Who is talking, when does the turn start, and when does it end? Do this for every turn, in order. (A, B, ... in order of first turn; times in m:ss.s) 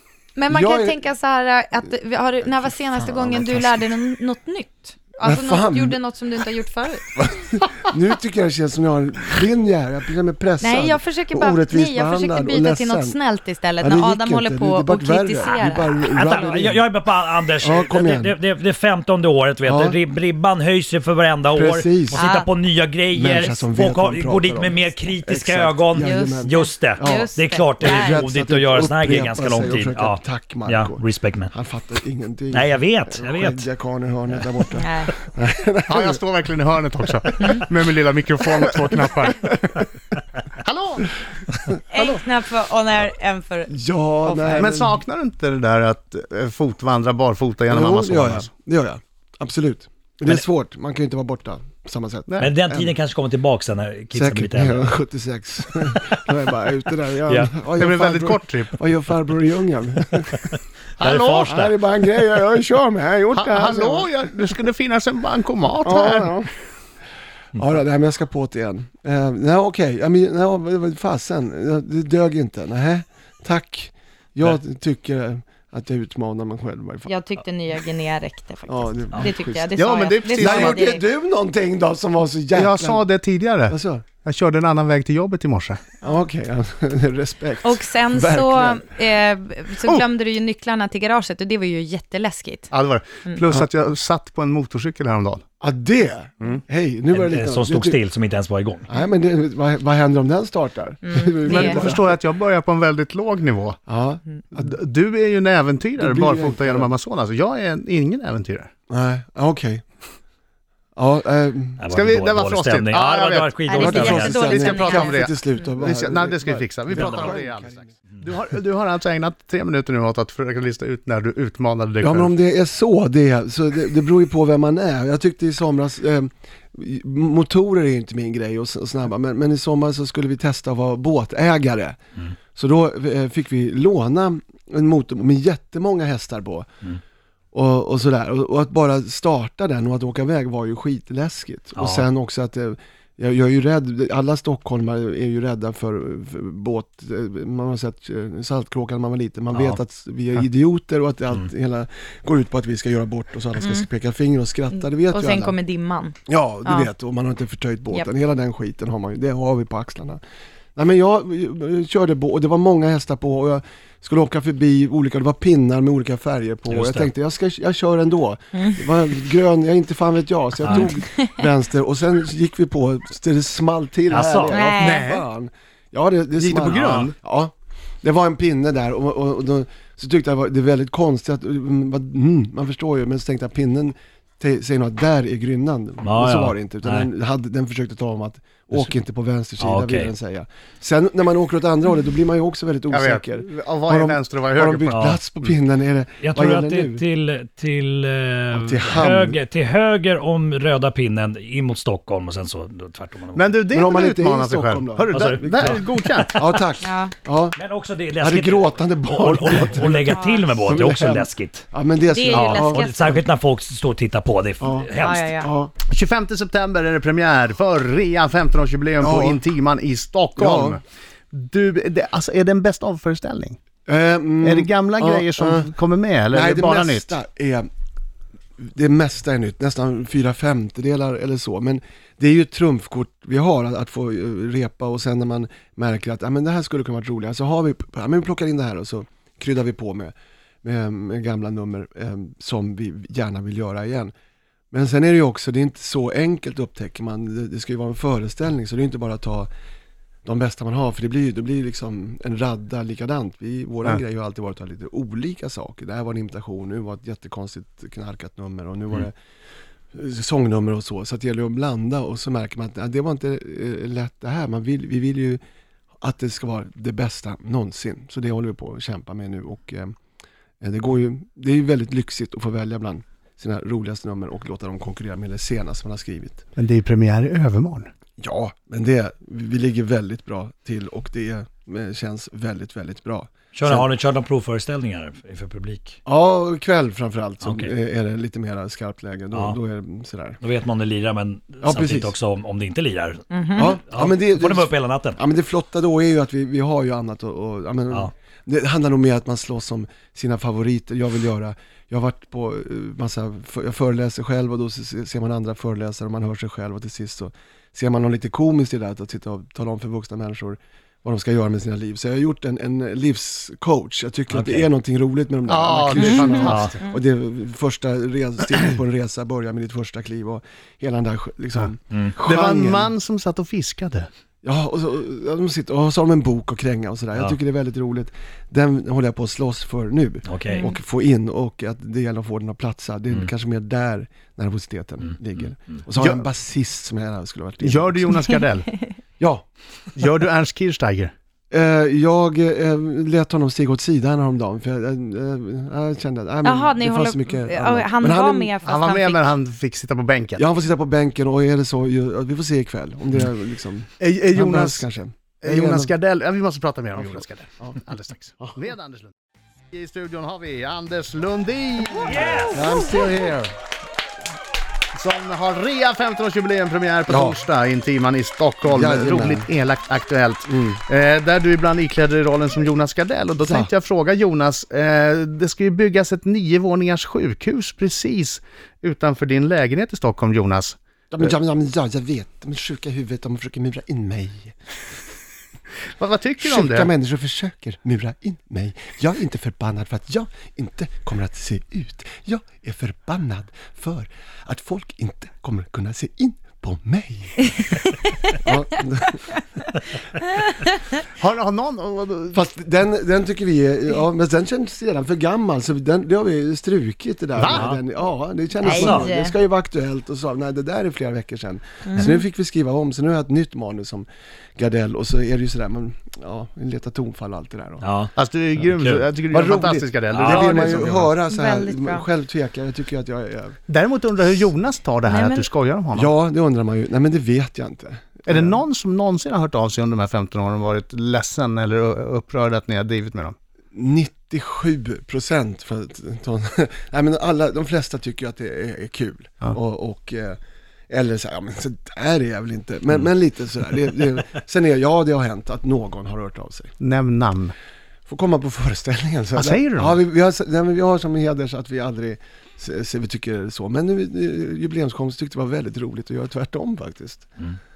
0:00.4-0:07.3 A
0:00.5-0:01.0 B
0:02.4-0:03.8 B
0:05.2-0:06.0 B
0:07.2-0:13.2 B
0:10.6-0:16.0 A
0:13.8-0:16.9 B
0:15.4-0:31.5 C
0:17.6-0:18.4 B
0:19.6-0:20.0 B
0:21.5-0:22.2 B
0:22.1-0:22.5 A
0:23.1-0:36.2 B
0:25.9-0:28.2 A
0:32.5-0:33.7 C
0:34.8-0:35.1 A
0:35.9-0:39.8 D
0:40.5-0:41.1 D
0:41.9-0:44.7 A
0:41.9-0:42.2 B
0:43.7-0:45.0 B
0:44.5-0:48.5 D
0:47.7-0:52.9 B
0:52.3-0:52.5 D
0:52.4-0:54.9 C
0:54.1-1:00.6 B
0:57.2-0:57.5 C
0:57.8-0:58.8 D
1:01.0-1:01.5 D
1:01.0-1:01.8 C
1:01.4-1:04.2 B
1:03.3-1:06.3 D
1:05.8-1:06.5 B
1:07.5-1:17.1 B
1:17.0-1:21.0 A
1:18.7-1:23.1 B
1:19.8-1:20.8 D
1:22.5-1:25.8 D
1:23.6-1:24.0 B
1:26.0-1:28.8 B
1:27.6-1:32.7 A
1:32.7-1:35.4 D
1:35.6-1:38.0 B
1:37.1-1:38.9 C
1:38.9-1:42.2 B
1:41.0-1:41.8 A
1:41.5-1:43.8 D
1:43.9-1:44.8 B
1:44.5-1:48.7 D
1:46.0-1:46.9 B
1:48.9-1:49.8 B
1:51.0-1:51.8 B
1:51.8-1:54.4 C
1:51.9-1:53.8 D
1:53.6-1:55.2 A
1:53.7-1:57.9 B
1:54.4-2:02.3 D
2:02.0-2:12.0 B
2:12.5-2:16.7 B
2:17.5-2:35.6 B
2:21.8-2:22.1 C
2:29.5-2:29.8 C
2:33.6-2:33.9 A
2:35.0-2:36.9 A
2:36.3-2:40.2 B
2:40.8-3:17.0 B
2:46.7-2:47.1 C
2:48.5-2:48.9 A
2:50.6-2:50.9 C
2:50.7-2:51.3 A
2:54.1-2:54.7 C
2:54.5-2:55.0 A
2:54.8-2:55.2 D
2:56.4-2:57.1 D
2:56.7-2:57.0 C
3:06.0-3:07.1 C
3:09.6-3:10.1 C
3:12.9-3:15.2 D
3:14.9-3:15.5 C
3:16.2-3:23.6 C
3:18.5-3:19.4 B
3:23.3-3:26.6 D
3:23.7-3:27.6 B
3:25.1-3:26.2 C
3:26.8-3:27.1 A
3:27.5-3:31.7 C
3:28.2-3:33.2 B
3:30.0-3:30.5 A
3:32.0-3:33.1 A
3:32.3-3:35.4 C
3:34.6-3:35.7 B
3:35.0-3:35.5 A
3:35.8-3:43.6 D
3:39.0-3:39.4 B
3:40.4-3:40.8 B
3:43.8-3:45.7 B
3:44.4-3:47.1 D
3:46.3-3:47.7 B
3:48.6-4:04.1 B
4:04.7-4:09.5 B
4:10.2-4:19.1 B
4:19.9-4:25.4 B
4:26.0-4:29.9 B
4:30.6-4:36.4 B
4:36.6-4:37.9 D
4:38.2-4:43.8 B
4:43.5-4:46.0 C
4:46.0-4:50.4 B
4:47.4-4:47.7 C
4:49.3-4:49.6 C
4:50.4-4:55.2 C
4:51.6-4:52.1 B
4:53.3-4:53.7 A
4:53.6-5:22.9 B
5:14.3-5:14.7 C
5:15.5-5:16.9 D
5:15.9-5:17.0 A
5:16.4-5:16.7 C
5:22.2-5:24.1 D
5:24.4-5:38.4 B
5:30.2-5:30.7 C
5:30.5-5:30.8 A
5:35.4-5:35.8 C
5:36.0-5:36.2 D
5:37.6-5:38.7 D
5:39.2-5:39.4 B
5:39.9-5:41.1 D
5:41.5-5:48.5 B
5:46.4-5:49.2 A
5:48.6-5:50.4 D
5:50.4-5:55.9 B
5:54.0-5:54.9 D
5:55.4-5:59.1 D
5:57.0-5:57.8 B
5:59.7-6:02.9 D
6:02.0-6:03.0 C
6:02.5-6:03.5 B
6:04.9-6:20.8 D
6:07.1-6:07.4 B
6:08.6-6:09.5 B
6:10.5-6:10.8 B
6:13.4-6:13.7 B
6:21.1-6:24.5 B
6:26.0-6:26.9 D
6:26.4-6:37.5 B
6:37.8-6:38.6 A
6:38.4-6:39.2 B
6:40.2-6:40.8 A
6:41.0-6:42.4 D
6:42.3-6:57.9 B
6:47.4-6:47.7 D
6:47.4-6:47.8 C
6:48.6-6:49.3 A
6:48.6-6:49.1 C
6:51.8-6:52.2 A
6:57.8-6:58.1 C
6:58.2-7:01.1 D
6:58.7-6:59.0 C
6:59.3-7:03.6 B
7:00.1-7:00.5 C
7:00.3-7:02.0 A
7:03.7-7:06.1 D
7:05.0-7:05.4 A
7:05.9-7:08.6 B
7:08.2-7:13.3 D
7:13.7-7:20.4 B
7:20.9-7:26.7 B
7:26.8-7:27.5 D
7:28.1-7:37.3 B
7:29.3-7:30.0 D